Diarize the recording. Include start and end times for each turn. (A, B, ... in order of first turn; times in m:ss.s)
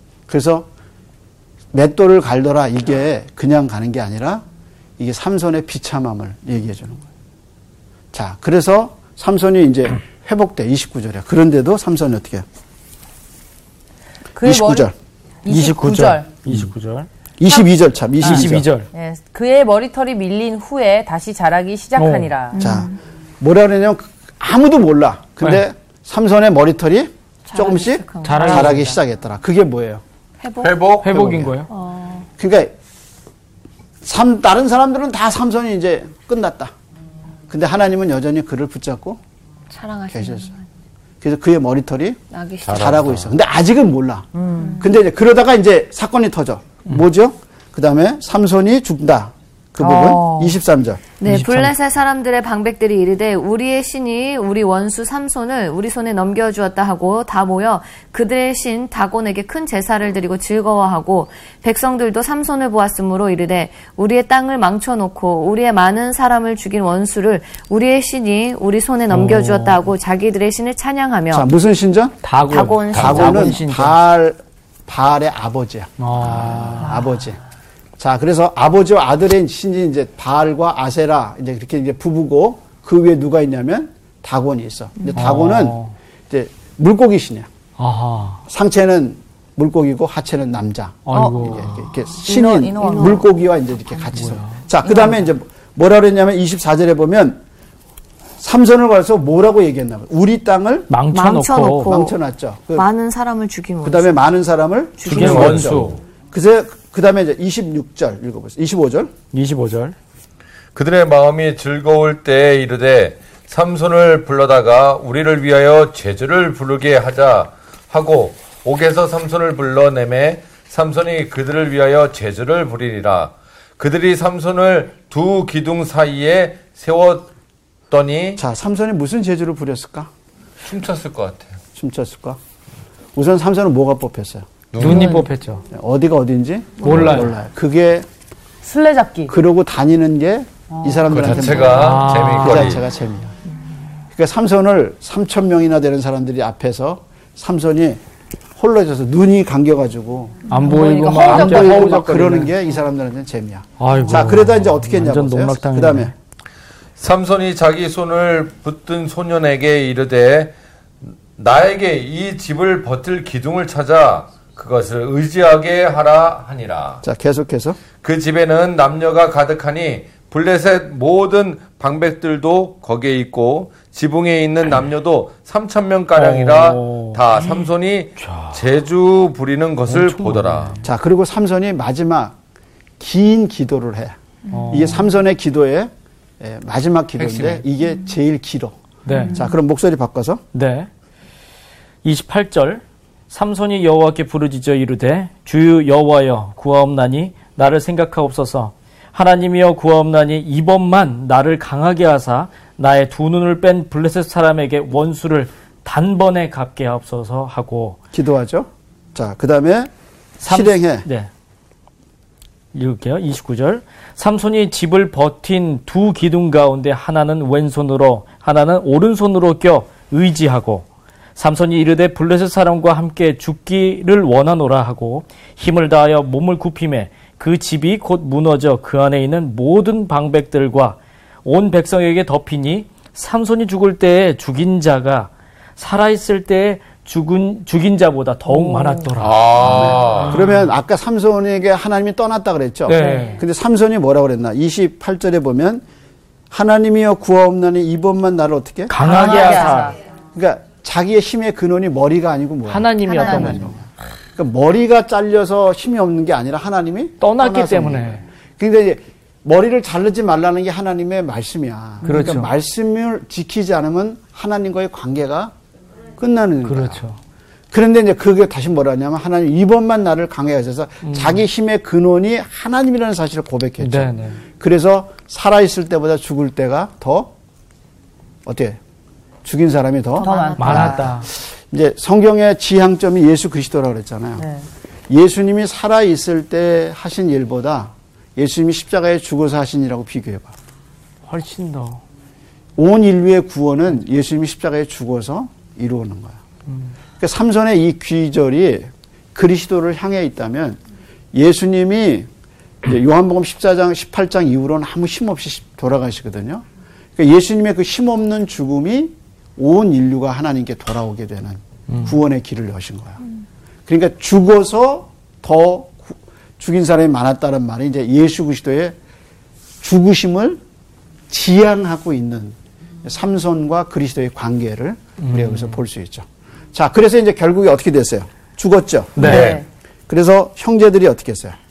0:00.3-0:00.7 A
0:01.7-0:04.4 A
0:05.0-0:07.0 A
0:08.1-0:12.4 A
0:14.3-0:14.9 B
0:14.4-0:14.9 A
0:15.4-0:16.3 B
0:15.5-0:17.1 C
0:17.4-0:18.7 A
0:18.2-0:18.9 C
0:18.2-0:22.7 B
0:22.0-0:22.3 C
0:22.5-0:23.0 D
0:22.6-0:30.0 A
0:27.5-0:29.0 D
0:28.2-0:28.9 C
0:30.4-0:30.7 D
0:30.6-0:31.2 E
0:31.0-0:31.7 C
0:31.0-0:31.6 A
0:31.7-0:32.3 D
0:32.4-0:32.7 A
0:34.0-0:36.7 A
0:37.5-0:39.2 A
0:39.7-0:40.6 D
0:40.1-0:40.5 A
0:41.2-0:42.2 A
0:42.3-0:42.9 D
0:42.6-0:43.4 E
0:42.7-0:51.0 A
0:44.3-0:44.8 B
0:49.8-0:50.6 B
0:51.2-1:11.5 D
0:51.2-0:51.7 C
1:09.1-1:09.8 C
1:11.3-1:12.2 A
1:12.2-1:14.0 C
1:12.5-1:13.6 D
1:12.9-1:17.4 A
1:13.0-1:13.3 E
1:16.0-1:17.0 C
1:18.0-1:25.8 A
1:25.1-1:25.9 C
1:26.3-1:27.5 A
1:27.8-1:28.4 C
1:28.5-1:37.4 A
1:31.0-1:31.9 C
1:31.1-1:31.5 B
1:32.3-1:33.2 B
1:32.8-1:33.2 D
1:34.1-1:34.6 C
1:34.8-1:35.3 B
1:38.4-1:40.9 A
1:40.9-1:42.0 C
1:41.1-1:42.2 D
1:41.8-1:42.9 A
1:42.7-1:44.2 D
1:43.8-1:49.1 A
1:45.0-1:45.6 D
1:45.0-1:46.0 C
1:45.1-1:46.0 E
1:49.3-1:50.0 C
1:50.7-2:07.3 E
2:07.9-2:08.4 E
2:08.4-2:10.1 A
2:10.6-2:11.6 E
2:11.7-2:12.4 A
2:13.1-2:18.0 A
2:14.7-2:15.2 E
2:14.8-2:15.6 C
2:16.8-2:17.3 C
2:16.8-2:17.1 D
2:18.6-2:19.3 B
2:19.3-2:23.3 A
2:20.7-2:21.0 B
2:21.1-2:22.8 C
2:21.1-2:22.8 E
2:24.1-2:28.0 A
2:28.6-2:36.1 A
2:30.5-2:32.5 C
2:30.6-2:32.1 B
2:33.8-2:36.1 C
2:37.0-2:40.5 E
2:41.4-2:47.0 E
2:47.0-2:47.8 A
2:48.0-3:00.8 E
2:56.1-2:57.6 C
2:58.2-2:58.6 C
2:59.9-3:00.8 C
3:00.8-3:02.3 A
3:03.0-3:04.2 A
3:04.5-3:05.1 C
3:04.7-3:08.8 A
3:07.2-3:07.6 E
3:09.0-3:09.4 C
3:09.3-3:10.4 A
3:10.5-3:10.9 C
3:12.0-3:28.0 C
3:28.1-3:31.1 A
3:30.4-3:31.3 C
3:32.7-4:00.7 C
3:58.6-3:59.0 B
3:59.2-4:00.4 E
3:59.6-4:05.8 A
4:02.9-4:03.4 C
4:03.0-4:03.3 B
4:06.5-4:09.8 A
4:08.9-4:09.9 C
4:09.0-4:10.0 B
4:10.3-4:25.5 A
4:12.7-4:13.7 C
4:13.0-4:13.6 B
4:17.2-4:18.2 C
4:22.0-4:22.5 C
4:26.2-4:27.0 A
4:26.6-4:27.2 C
4:27.7-4:37.3 A
4:31.0-4:31.4 C
4:33.8-4:34.4 C
4:38.4-4:38.8 A
4:39.4-4:44.4 A
4:40.2-4:41.0 D
4:40.2-4:41.0 B
4:40.6-4:41.3 C
4:44.4-4:44.6 B
4:45.1-4:50.5 A
4:51.2-4:52.0 C
4:52.8-4:56.4 A
4:57.2-5:00.8 A
5:01.3-5:02.3 A
5:02.8-5:06.6 A
5:07.2-5:13.2 A
5:11.9-5:12.2 C
5:13.9-5:19.0 A
5:19.8-5:20.6 A
5:21.3-5:29.5 A
5:25.2-5:25.8 C
5:29.2-5:29.5 C
5:29.2-5:29.6 E
5:29.2-5:29.6 B
5:30.1-5:31.6 A